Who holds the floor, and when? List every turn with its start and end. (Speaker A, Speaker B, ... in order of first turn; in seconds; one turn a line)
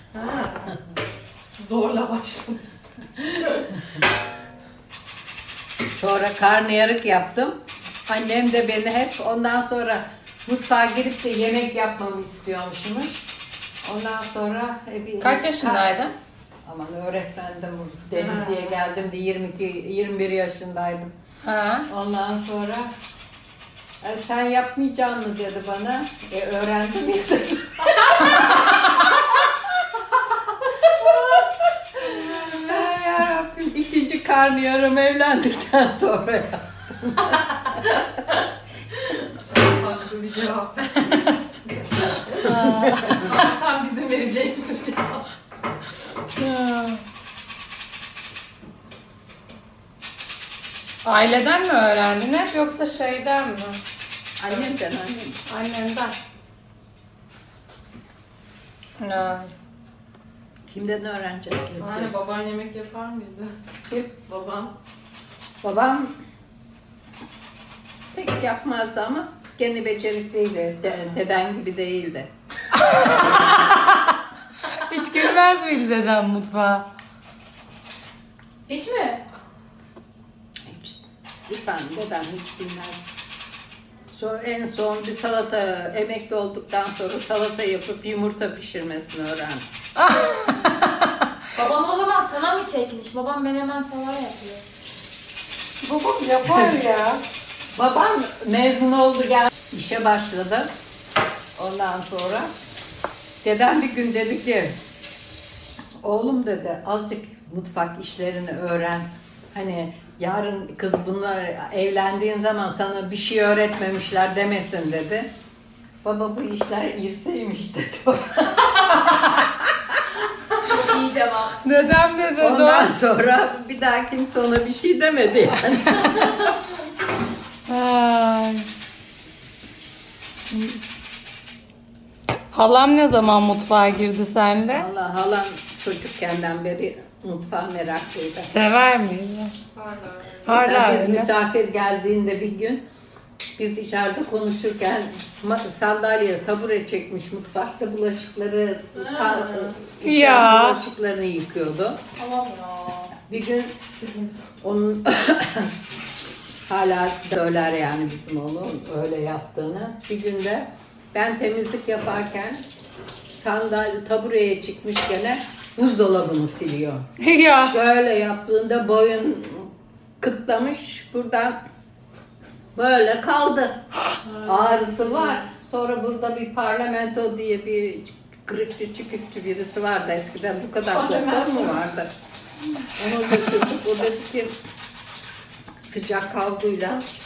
Speaker A: 0.1-0.8
Speaker A: 1.6-3.7
Speaker B: 5.9-13.2
Speaker B: 13.8-15.9
Speaker C: 15.2-16.1
Speaker B: 16.6-21.1
Speaker C: 21.4-21.9
Speaker B: 21.9-22.9
Speaker B: 24.0-29.5
Speaker B: 30.9-38.0
Speaker A: 39.1-45.3
Speaker C: 42.4-43.4
Speaker C: 46.4-47.0
Speaker C: 51.0-53.8
Speaker B: 54.4-55.4
Speaker C: 55.5-56.2
Speaker C: 59.0-59.5
Speaker B: 60.7-62.1
Speaker A: 61.8-63.5
Speaker A: 64.2-64.7
Speaker B: 65.6-66.1
Speaker B: 68.1-72.3
Speaker C: 72.9-74.1
Speaker C: 74.9-76.9
Speaker D: 78.7-79.2
Speaker B: 80.7-83.0
Speaker B: 84.1-89.7
Speaker C: 90.0-91.0
Speaker D: 91.5-94.6
Speaker C: 95.8-97.2
Speaker B: 96.5-96.7
Speaker B: 97.8-100.7
Speaker B: 101.6-102.5
Speaker B: 103.4-104.7
Speaker B: 106.0-115.3
Speaker B: 116.0-120.0
Speaker D: 120.7-121.6
Speaker C: 121.6-122.9
Speaker B: 122.4-126.5
Speaker C: 127.7-128.7
Speaker C: 132.5-134.9
Speaker B: 134.7-138.5
Speaker C: 138.5-139.5
Speaker A: 139.8-140.5
Speaker C: 140.5-141.3
Speaker B: 140.6-142.8
Speaker B: 143.6-152.0
Speaker A: 149.0-149.8
Speaker C: 150.0-150.8
Speaker A: 152.6-153.1
Speaker B: 153.2-153.8
Speaker A: 154.0-154.4
Speaker B: 154.6-155.7
Speaker B: 156.7-162.6
Speaker B: 163.3-167.1
Speaker C: 167.2-167.8
Speaker B: 167.6-169.7
Speaker B: 170.2-171.6
Speaker B: 172.8-173.8
Speaker A: 174.2-175.4
Speaker B: 174.4-182.1
Speaker A: 180.9-181.8
Speaker B: 182.9-184.5
Speaker B: 185.8-187.0